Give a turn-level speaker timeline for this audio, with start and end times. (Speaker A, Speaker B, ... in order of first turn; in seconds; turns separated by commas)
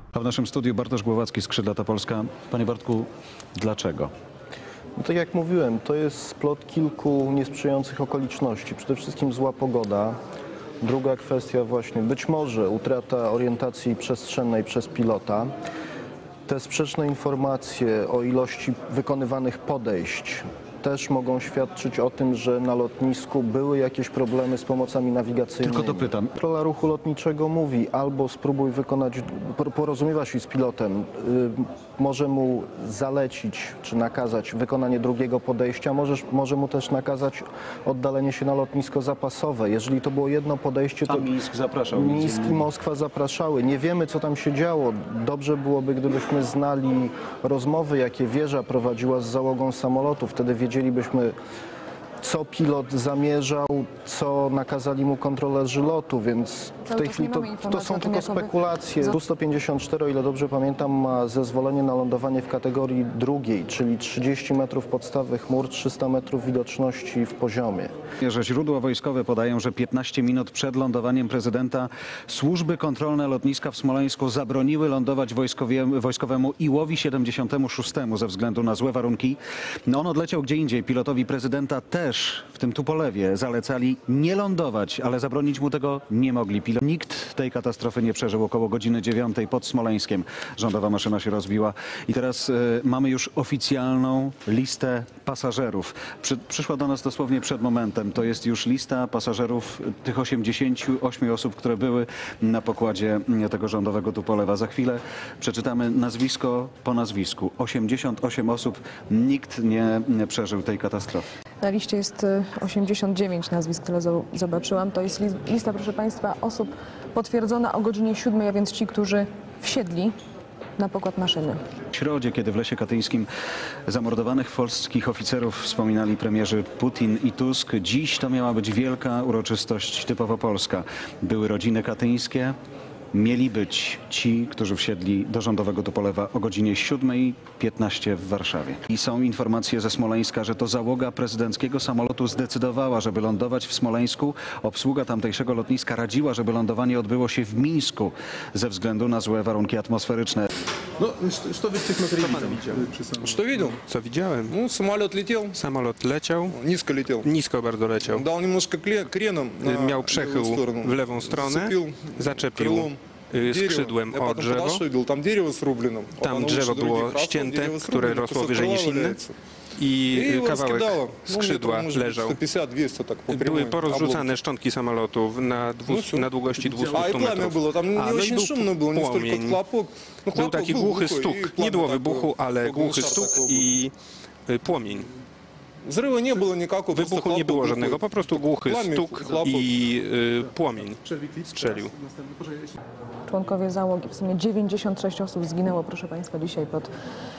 Speaker A: 0.1-4.1, Speaker B: 5.0-10.2, Speaker B: 10.8-15.5, Speaker B: 16.5-41.3, Speaker A: 25.6-26.3, Speaker A: 41.1-42.6, Speaker B: 41.9-51.3, Speaker B: 52.2-67.9, Speaker C: 56.9-59.1, Speaker A: 68.2-111.3, Speaker C: 111.6-120.1, Speaker C: 120.8-121.6, Speaker A: 121.9-123.3, Speaker A: 123.9-132.6, Speaker A: 133.1-150.5, Speaker D: 151.0-154.6, Speaker E: 154.6-155.5, Speaker D: 155.5-156.6, Speaker E: 156.6-157.2, Speaker D: 157.2-158.2, Speaker E: 158.2-162.9, Speaker D: 159.6-164.8, Speaker E: 163.5-169.3, Speaker D: 166.2-169.2, Speaker D: 169.7-172.4, Speaker E: 170.2-174.2, Speaker D: 173.3-179.6, Speaker E: 177.0-183.5, Speaker D: 180.3-183.9, Speaker D: 184.4-185.1, Speaker E: 185.8-188.0, Speaker D: 186.9-191.9, Speaker E: 188.7-189.7, Speaker C: 193.3-196.9